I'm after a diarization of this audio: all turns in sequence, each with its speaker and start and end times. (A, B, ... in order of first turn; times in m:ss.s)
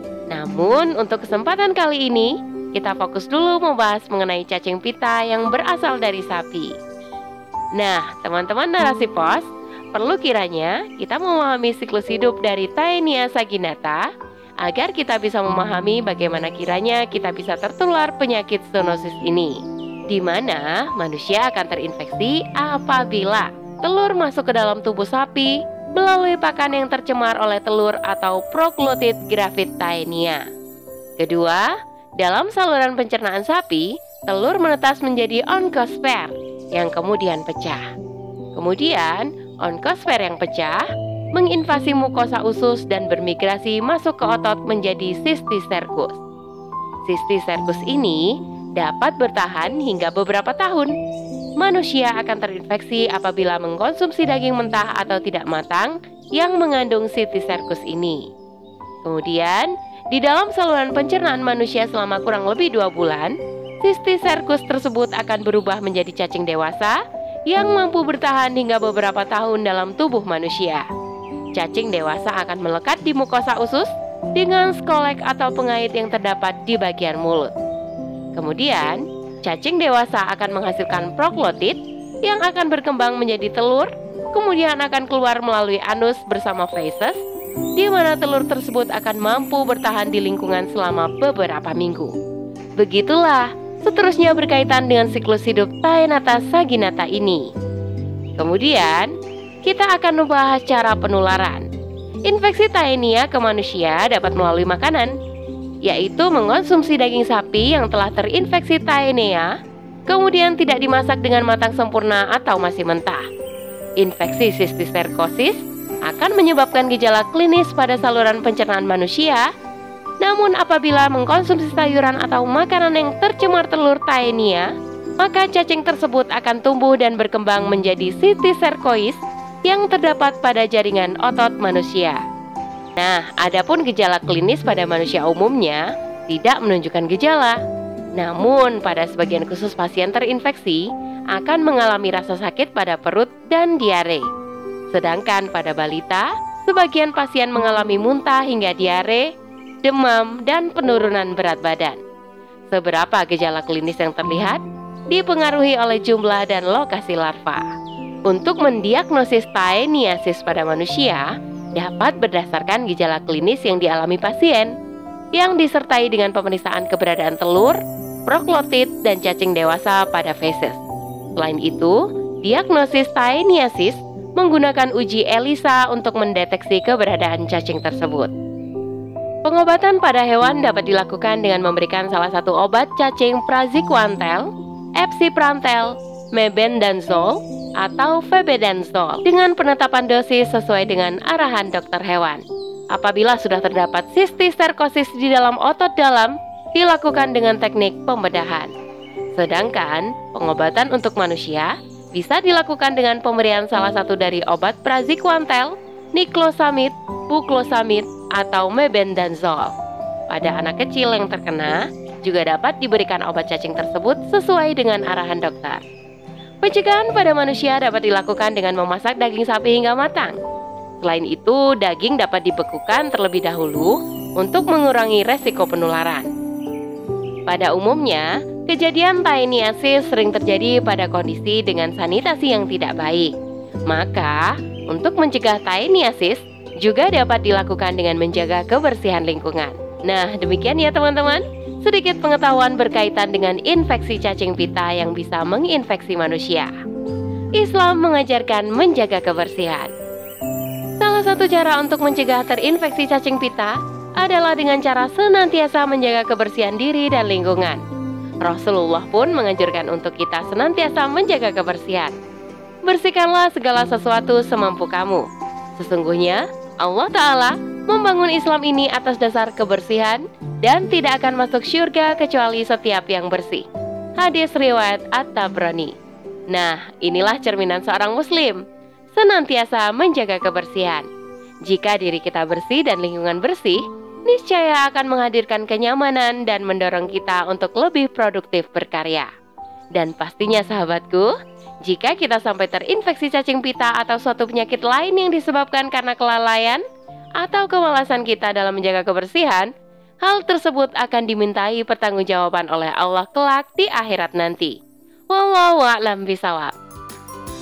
0:00.3-0:06.7 A
0:07.8-0:14.0 A
0:14.6-0:19.6 A
0:20.1-0:30.4 A
0:31.2-0:37.8 A
0:38.5-0:40.8 A
0:41.3-0:46.2 A
0:47.0-0:50.9 A
0:51.6-0:58.2 A
0:59.0-1:07.0 A
1:07.5-1:10.8 A
1:11.6-1:17.5 A
1:18.3-1:27.2 A
1:27.8-1:32.1 A
1:32.8-1:37.4 A
1:38.4-1:39.1 A
1:39.6-1:41.6 A
1:42.2-1:45.1 A
1:45.8-1:49.5 A
1:50.1-1:53.2 A
1:54.0-1:59.4 A
2:00.2-2:04.6 A
2:05.2-2:12.2 A
2:13.0-2:17.6 A
2:18.2-2:24.3 A
2:24.9-2:29.3 A
2:29.8-2:32.0 A
2:32.7-2:37.6 A
2:38.3-2:41.2 A
2:41.8-2:44.7 A
2:45.4-2:50.8 A
2:51.4-2:58.3 A
2:59.4-3:18.7 A
3:19.4-3:29.7 A
3:30.3-3:35.9 A
3:36.6-3:40.3 A
3:41.0-3:46.3 A
3:47.5-3:53.3 A
3:53.9-4:06.7 A
4:07.6-4:09.9 A
4:11.0-4:17.8 A
4:18.4-4:22.1 A
4:22.9-4:33.6 A
4:34.2-4:35.9 A
4:36.5-4:38.6 A
4:39.1-4:41.0 A
4:41.7-4:49.3 A
4:50.0-4:51.3 A
4:51.8-4:56.8 A
4:57.4-4:59.7 A
5:00.2-5:04.8 A
5:05.3-5:06.7 A